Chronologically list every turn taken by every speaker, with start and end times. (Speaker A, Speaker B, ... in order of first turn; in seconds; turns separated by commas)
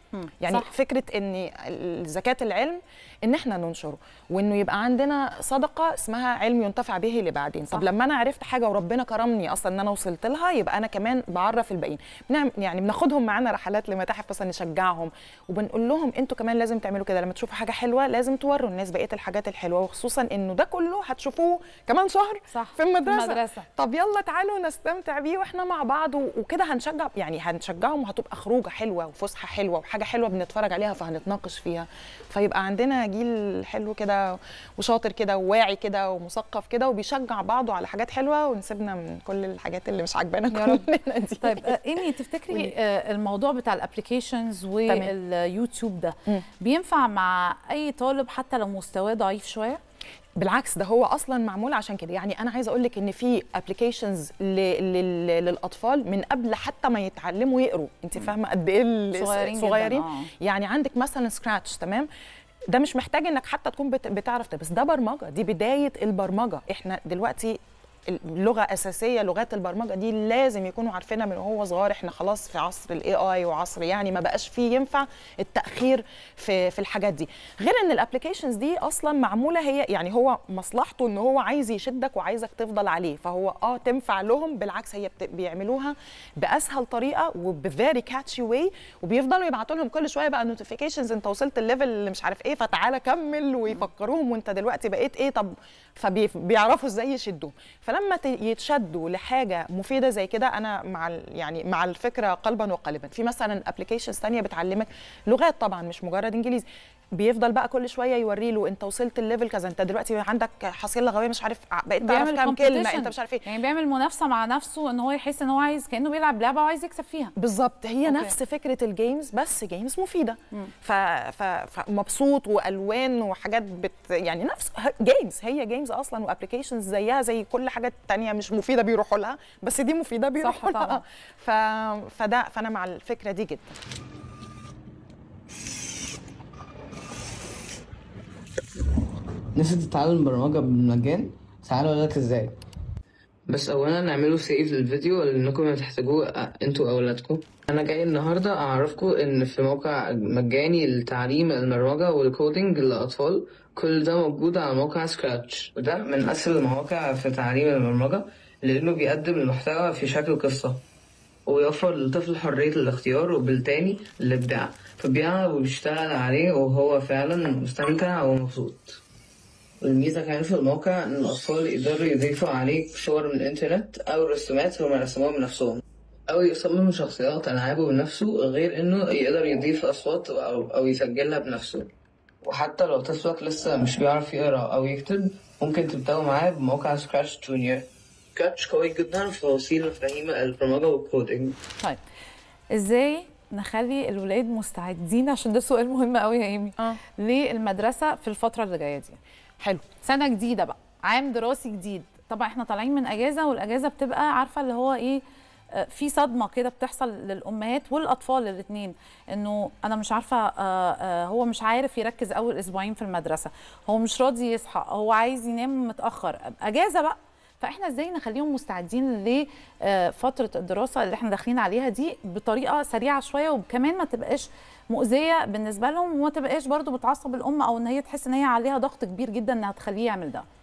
Speaker A: 0.1-0.7, Speaker B: 0.4-41.8, Speaker A: 22.5-23.7, Speaker A: 40.5-40.9, Speaker A: 41.4-49.8, Speaker B: 44.9-45.1, Speaker B: 50.4-62.1, Speaker A: 59.1-60.3, Speaker B: 62.7-113.4, Speaker A: 112.0-117.3, Speaker B: 117.4-133.8, Speaker A: 118.0-118.3, Speaker A: 130.4-131.0, Speaker C: 139.5-142.6, Speaker C: 143.5-160.8, Speaker C: 161.4-169.0, Speaker C: 169.8-181.9, Speaker C: 182.4-191.6, Speaker A: 192.7-199.2, Speaker A: 200.0-205.2, Speaker A: 205.7-230.4